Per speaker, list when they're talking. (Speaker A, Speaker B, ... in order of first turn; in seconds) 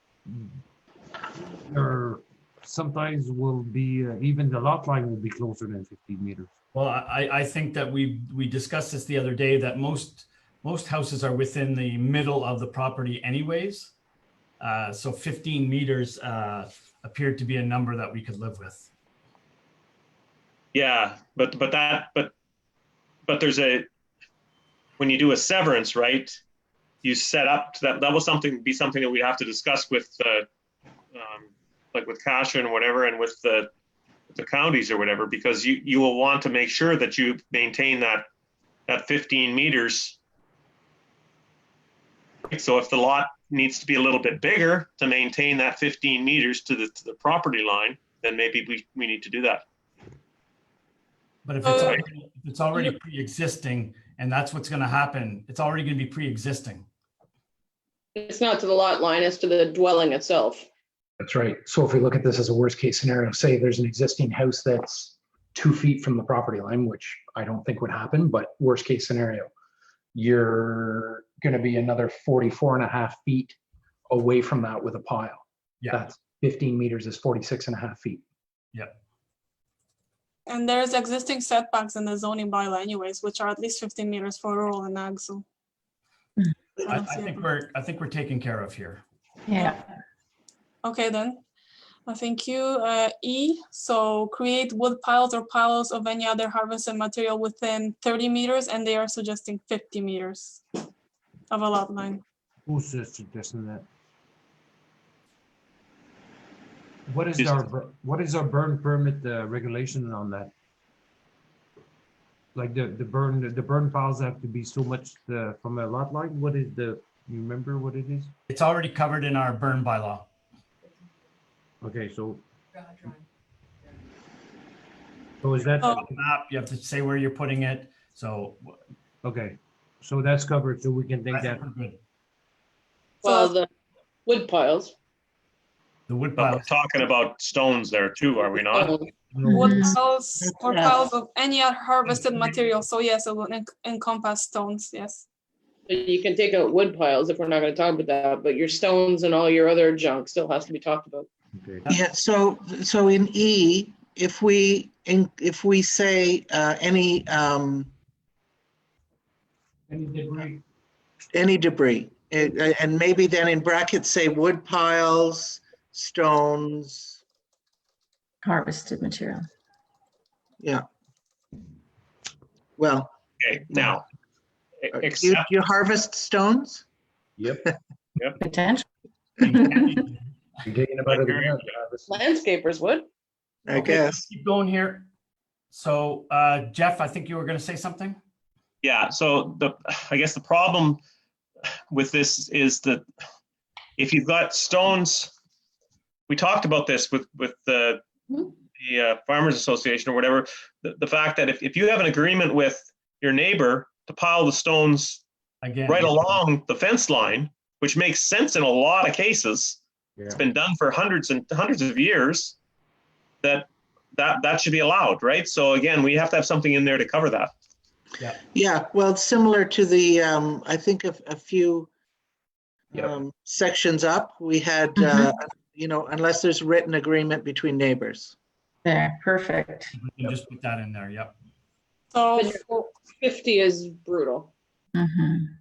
Speaker A: 0.3-0.6, 1.6-6.5, 102.7-103.9, 107.1-110.5, 112.5-118.3, 121.8-122.4, 125.4-126.1, 129.2-131.7, 139.3-139.7, 151.5-151.9, 159.9-160.6
Speaker B: 6.7-13.9, 14.6-18.9, 51.5-56.9, 78.7-79.0, 86.9-89.0, 118.5-120.3, 125.9-128.8, 131.3-132.0, 136.1-136.7, 183.7-185.1, 185.7-188.2, 205.6-206.4, 230.0-231.3
Speaker C: 20.7-22.3, 23.2-23.9, 25.0-26.4, 27.0-30.5, 31.1-33.7, 34.3-38.3, 38.9-40.2, 42.5-49.6, 51.8-52.0, 107.4-107.6, 136.3-138.9, 173.4-174.0, 174.8-175.4, 181.1-181.6, 188.8-191.0, 191.9-193.1, 194.0-195.3, 196.3-198.0, 198.7-205.2, 205.8-212.6, 213.4-217.5
Speaker D: 51.6-52.0, 80.5-85.4, 86.8-87.4, 90.8-91.4, 92.1-100.6, 101.5-102.2, 133.2-133.6, 139.4-145.2, 232.1-232.7
Speaker E: 58.2-60.7, 133.2-133.7, 134.2-134.9, 138.7-139.1, 145.9-151.3, 182.1-183.1, 232.4-234.5
Speaker F: 61.2-69.5, 70.1-73.6, 74.1-78.2, 177.4-177.6, 180.6-182.1
Speaker G: 89.5-89.8, 139.4-140.0, 168.4-169.4, 178.4-178.8, 179.5-179.9, 225.0-225.3, 228.8-229.9, 234.9-235.5
Speaker H: 140.4-141.1, 151.9-157.9, 161.3-167.2, 172.8-173.1, 174.9-176.8, 183.7-184.2, 218.5-221.9, 222.9-228.3